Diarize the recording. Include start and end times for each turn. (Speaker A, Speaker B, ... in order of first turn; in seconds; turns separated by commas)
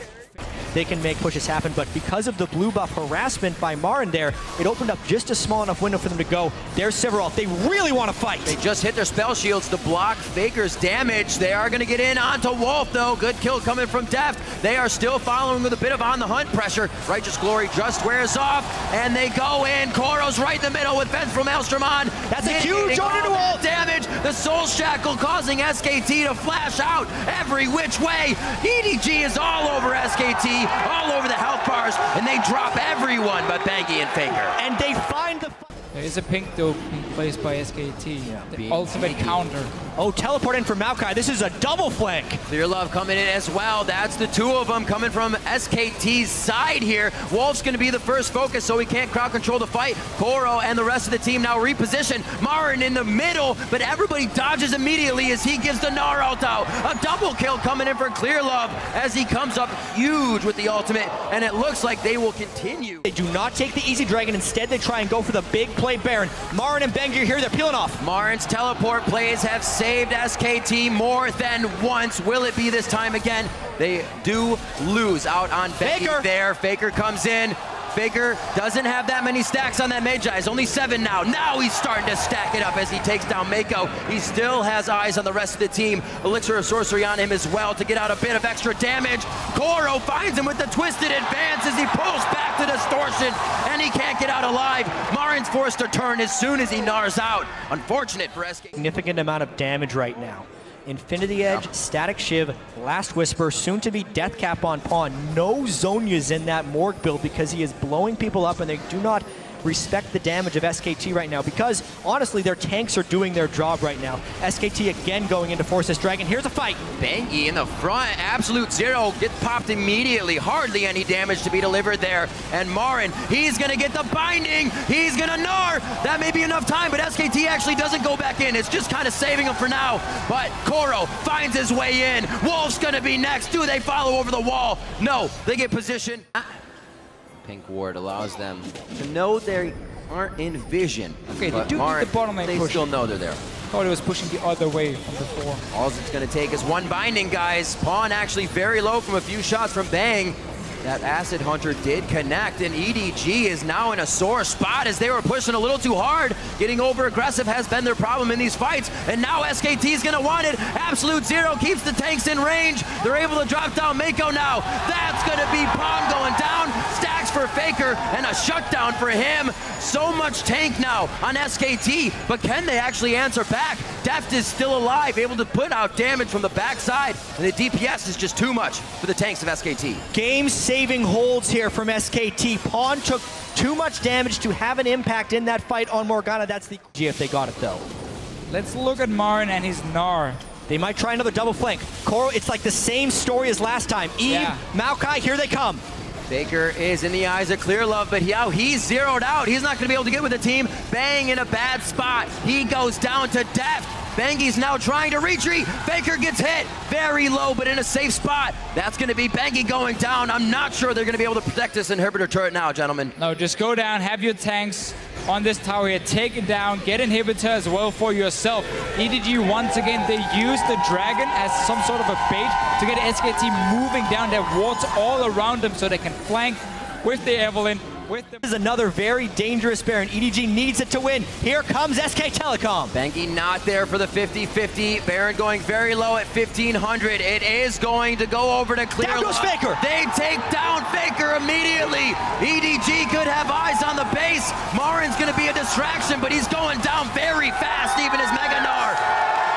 Speaker A: 0.7-8.6, Speaker B: 8.4-34.5, Speaker A: 22.3-23.6, Speaker A: 34.6-35.7, Speaker C: 35.9-39.7, Speaker B: 38.5-39.4, Speaker A: 40.0-42.4, Speaker B: 42.5-63.0, Speaker A: 63.0-68.0, Speaker B: 68.0-98.7, Speaker A: 75.8-76.3, Speaker A: 98.8-116.8, Speaker B: 117.0-136.4, Speaker B: 137.4-143.4, Speaker C: 141.3-142.9, Speaker C: 143.7-145.6, Speaker B: 145.7-180.0, Speaker A: 180.1-187.8, Speaker C: 188.5-190.4, Speaker A: 190.7-195.8, Speaker C: 194.2-194.6, Speaker B: 196.3-213.1, Speaker C: 213.2-228.4, Speaker A: 228.4-232.9, Speaker B: 232.9-249.0, Speaker A: 239.0-239.8